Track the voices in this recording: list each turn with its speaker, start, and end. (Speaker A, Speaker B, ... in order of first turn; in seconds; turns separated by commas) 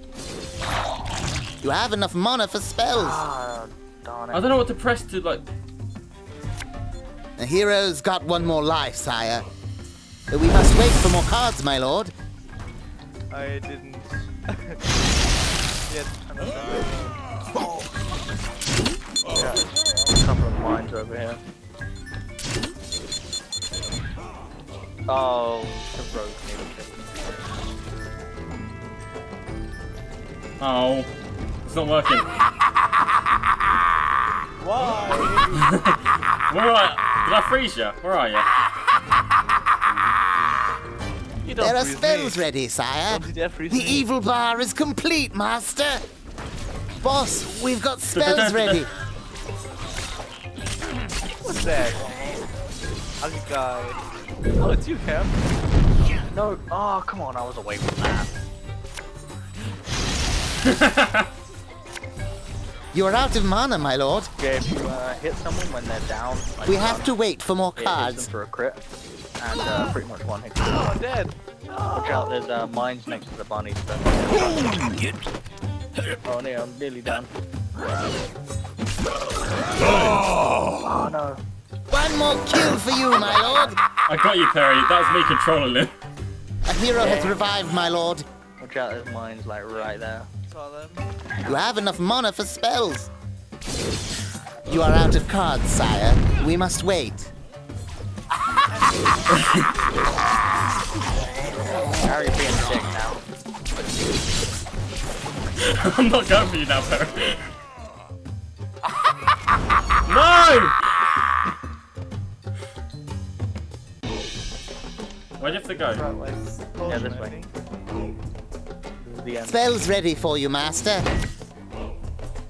Speaker A: 1.6-3.2, Speaker B: 2.9-4.6, Speaker C: 4.3-5.4, Speaker A: 7.4-9.4, Speaker A: 10.3-12.1, Speaker D: 13.3-14.8, Speaker D: 15.9-17.2, Speaker B: 19.3-21.4, Speaker B: 25.1-27.1, Speaker C: 30.6-31.1, Speaker C: 31.6-32.3, Speaker D: 34.6-35.7, Speaker C: 35.5-38.5, Speaker D: 41.4-42.4, Speaker A: 41.6-46.0, Speaker D: 43.1-44.0, Speaker A: 47.0-48.9, Speaker C: 48.1-48.9, Speaker D: 51.4-52.0, Speaker D: 53.2-54.0, Speaker D: 54.6-55.4, Speaker B: 56.1-58.3, Speaker C: 60.6-61.3, Speaker A: 62.9-64.3, Speaker B: 64.4-67.2, Speaker A: 66.7-68.3, Speaker B: 67.8-68.8, Speaker B: 69.4-70.8, Speaker D: 69.6-70.0, Speaker D: 70.7-72.4, Speaker B: 71.9-75.0, Speaker B: 76.2-77.3, Speaker B: 79.8-80.2, Speaker B: 80.8-81.4, Speaker A: 81.9-83.8, Speaker B: 83.1-83.8, Speaker C: 84.1-85.9, Speaker A: 86.7-88.2, Speaker B: 87.0-87.5, Speaker B: 88.6-90.3, Speaker D: 90.5-91.1, Speaker A: 91.4-93.1, Speaker A: 94.7-97.3, Speaker D: 98.8-100.0, Speaker C: 99.3-99.7, Speaker B: 102.0-103.2, Speaker C: 105.6-107.4, Speaker C: 110.0-110.7, Speaker C: 115.4-116.0, Speaker D: 115.4-117.5, Speaker B: 116.8-117.3, Speaker B: 119.0-119.7, Speaker A: 119.5-121.0